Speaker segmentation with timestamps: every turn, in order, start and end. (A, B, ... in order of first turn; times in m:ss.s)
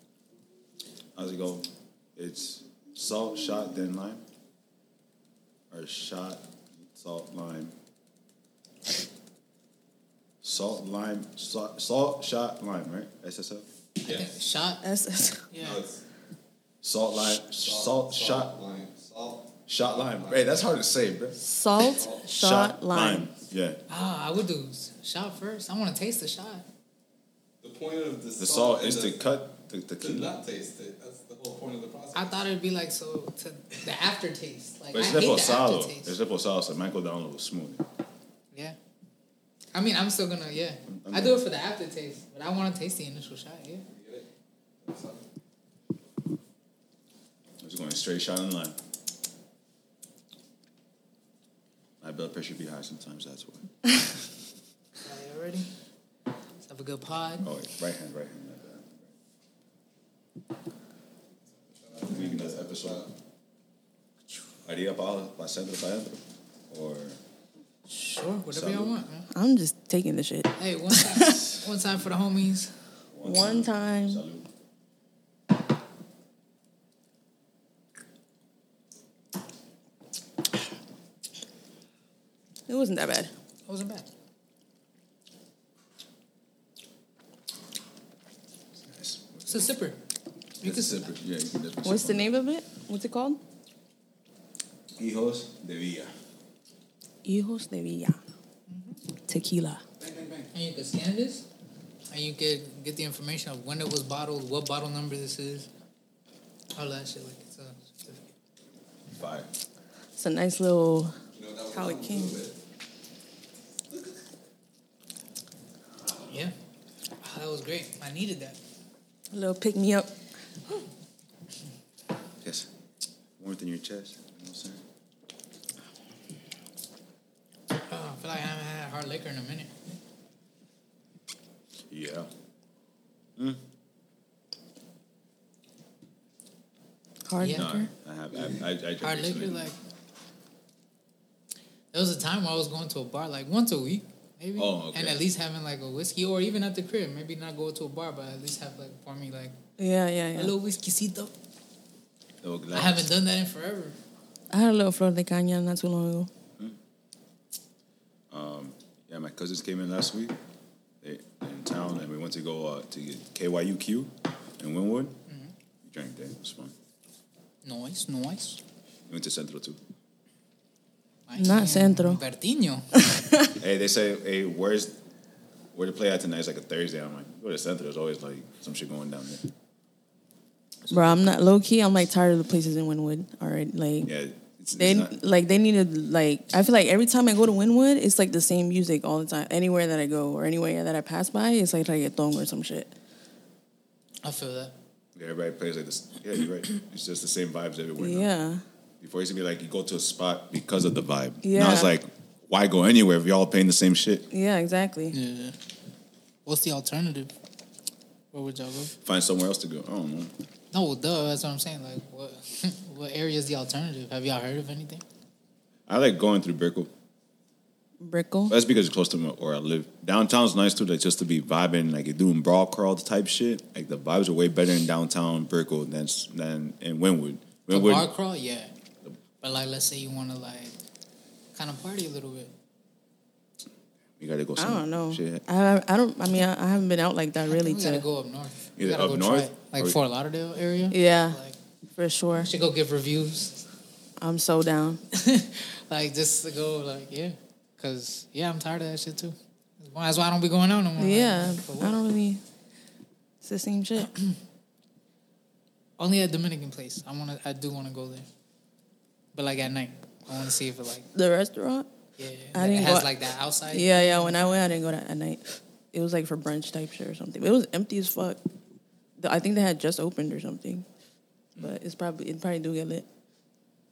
0:01.1-0:04.2 A
0:05.7-0:07.7 A
0:10.4-0:13.6 A
0:14.0-0:14.8 B
0:14.8-0:15.4 C
0:15.5-0:15.8 B
0:15.6-0:16.0 D
0:16.8-0:18.5 A
0:17.4-0:20.6 D
0:19.7-0:21.4 A
0:21.4-0:23.3 C
0:21.8-0:22.2 D
0:22.4-0:23.8 A
0:23.9-0:26.6 B
0:27.6-0:29.2 D
0:28.4-0:30.3 A
0:30.0-0:32.4 D
0:32.1-0:36.2 B
0:34.9-0:37.8 A
0:39.7-0:43.8 B
0:40.9-0:41.4 A
0:44.0-0:44.2 D
0:44.8-0:45.2 D
0:47.6-0:48.8 A
0:52.0-0:53.7 A
0:55.0-0:55.7 B
0:56.6-0:57.5 B
0:57.4-0:59.0 A
1:01.8-1:03.1 D
1:02.0-1:03.1 A
1:04.6-1:07.2 A
1:07.9-1:09.3 B
1:08.5-1:08.9 A
1:09.3-1:11.5 C
1:10.6-1:12.7 B
1:13.1-1:14.5 A
1:13.2-1:14.2 C
1:22.7-1:23.3 C
1:23.7-1:24.1 B
1:28.9-1:29.6 A
1:29.5-1:30.0 B
1:30.6-1:31.1 B
1:30.6-1:32.3 A
1:31.8-1:33.4 C
1:35.0-1:36.1 A
1:37.2-1:38.2 C
1:38.7-1:39.0 B
1:39.3-1:39.8 C
1:40.0-1:40.4 D
1:40.5-1:41.4 B
1:42.1-1:45.7 B
1:46.7-1:48.2 B
1:49.1-1:49.5 A
1:50.2-1:51.1 C
1:51.4-1:52.5 D
1:51.7-1:52.4 C
1:57.2-1:58.6 B
1:59.3-2:00.1 C
2:02.4-2:02.7 A
2:03.4-2:04.8 A
2:07.7-2:09.7 B
2:11.9-2:12.3 A
2:17.2-2:17.9 C
2:17.4-2:17.7 B
2:17.5-2:19.7 A
2:19.0-2:19.7 B
2:21.9-2:29.5 B
2:24.6-2:25.2 A
2:29.8-2:30.5 C
2:30.4-2:31.3 B
2:32.4-2:33.1 A
2:32.7-2:34.0 B
2:34.5-2:36.3 C
2:38.3-2:40.3 A
2:41.0-2:45.1 A
2:45.8-2:46.7 A
2:47.6-2:48.6 B
2:49.1-2:49.8 A
2:51.3-2:52.9 B
2:51.4-2:52.2 C
2:53.0-2:53.5 C
2:53.6-2:55.0 A
2:55.7-2:59.5 A
3:00.9-3:01.3 A
3:00.9-3:04.1 C
3:04.0-3:05.2 A
3:04.8-3:12.9 C
3:14.2-3:14.7 B
3:15.1-3:18.3 A
3:18.0-3:18.6 C
3:19.0-3:24.2 A
3:21.4-3:21.9 C
3:24.3-3:25.1 C
3:25.1-3:25.6 B
3:26.4-3:27.3 B
3:28.3-3:28.9 B
3:29.0-3:30.3 A
3:30.7-3:35.0 B
3:35.9-3:36.9 A
3:38.0-3:38.6 C
3:38.5-3:48.1 A
3:47.7-3:48.7 B
3:49.4-3:50.7 B
3:51.5-3:52.5 B
3:54.2-3:55.4 A
3:54.6-3:58.0 C
3:57.5-4:01.6 B
3:58.8-4:00.0 A
4:00.9-4:01.4 C
4:02.0-4:02.5 C
4:02.4-4:03.6 B
4:04.2-4:05.0 C
4:05.1-4:12.0 B
4:11.0-4:12.4 C
4:13.4-4:14.1 C
4:16.0-4:18.2 B
4:19.3-4:21.1 B
4:21.1-4:21.9 C
4:22.2-4:24.5 B
4:22.5-4:23.1 C
4:23.7-4:28.4 C
4:29.2-4:30.8 C
4:31.6-4:33.0 C